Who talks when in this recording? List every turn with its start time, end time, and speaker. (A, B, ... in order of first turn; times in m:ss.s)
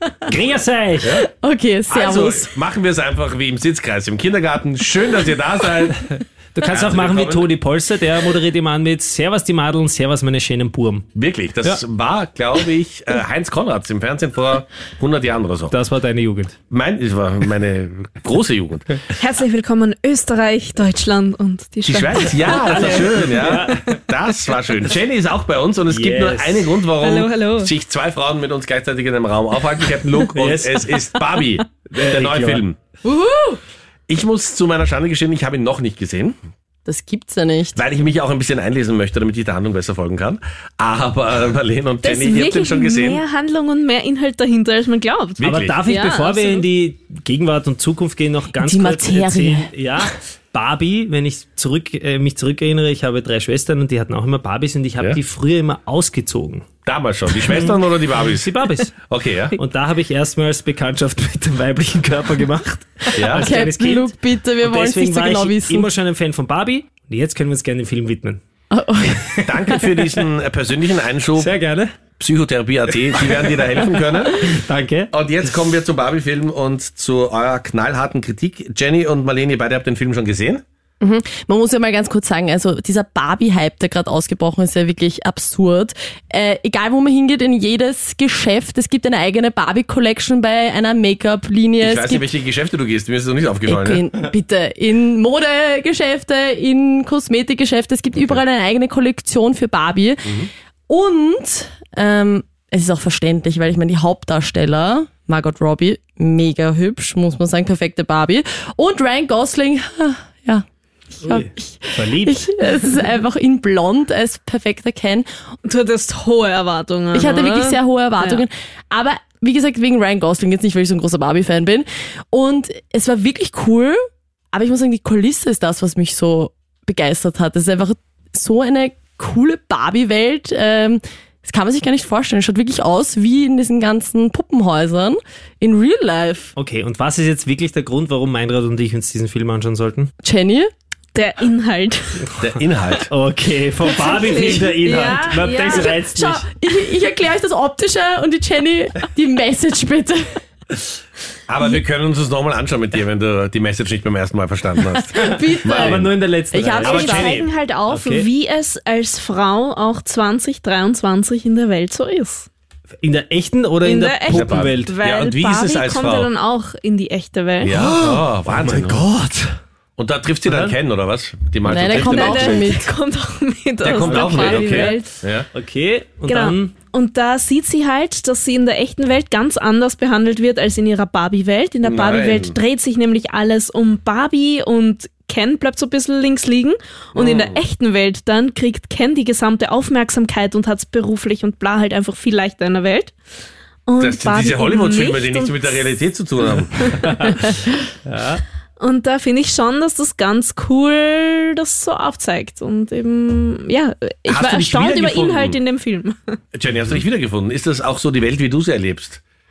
0:00.3-0:01.2 A
0:01.2-0:02.5 B
0:01.9-0:07.5 C
0:06.5-0:11.1 A
0:11.2-0:15.7 C
0:15.7-0:16.6 A
0:16.7-0:19.0 C
0:19.2-0:23.1 D
0:21.9-0:32.8 C
0:22.4-0:23.9 A
0:25.9-0:26.8 A
0:27.0-0:27.7 D
0:30.3-0:31.0 A
0:31.9-0:32.6 A
0:33.0-0:33.6 B
0:34.1-0:36.4 C
0:36.9-0:37.8 B
0:37.8-0:43.2 C
0:42.0-0:46.7 D
0:45.4-0:45.8 C
0:45.4-0:56.7 A
0:48.6-0:49.7 B
0:56.9-0:58.5 C
0:57.3-0:58.9 A
0:59.1-0:59.6 C
0:59.6-1:08.4 A
1:03.2-1:03.5 C
1:03.3-1:05.9 B
1:08.7-1:09.8 B
1:09.5-1:11.5 C
1:10.0-1:10.2 A
1:11.4-1:11.9 A
1:12.2-1:14.5 C
1:14.3-1:15.1 A
1:15.1-1:20.6 C
1:21.0-1:32.3 B
1:31.8-1:34.0 C
1:33.6-1:50.6 B
1:51.2-1:55.3 B
1:51.2-1:52.5 A
1:55.6-1:58.4 D
1:57.1-2:04.0 B
2:04.5-2:16.5 B
2:16.6-2:20.1 A
2:20.2-2:20.7 B
2:21.2-2:22.2 D
2:22.4-2:23.1 C
2:23.1-2:26.4 A
2:23.9-2:26.0 D
2:25.7-2:30.4 B
2:31.5-2:36.1 C
2:35.1-2:37.4 B
2:35.2-2:38.3 A
2:36.8-2:37.5 C
2:36.8-2:42.5 D
2:43.0-2:45.0 A
2:43.8-2:47.9 D
2:44.3-2:46.3 C
2:47.6-2:49.0 C
2:47.7-2:49.6 A
2:50.0-2:52.7 C
2:50.4-2:50.8 A
2:51.6-2:52.9 B
2:51.9-2:55.1 D
2:53.8-2:55.5 C
2:53.9-2:54.9 A
2:55.5-2:56.7 A
2:56.3-3:13.1 D
3:01.8-3:02.6 C
3:07.2-3:07.6 C
3:13.9-3:16.0 D
3:14.0-3:16.8 C
3:16.8-3:17.6 D
3:18.1-3:18.4 A
3:18.8-3:26.4 D
3:24.3-3:25.6 C
3:26.5-3:29.2 C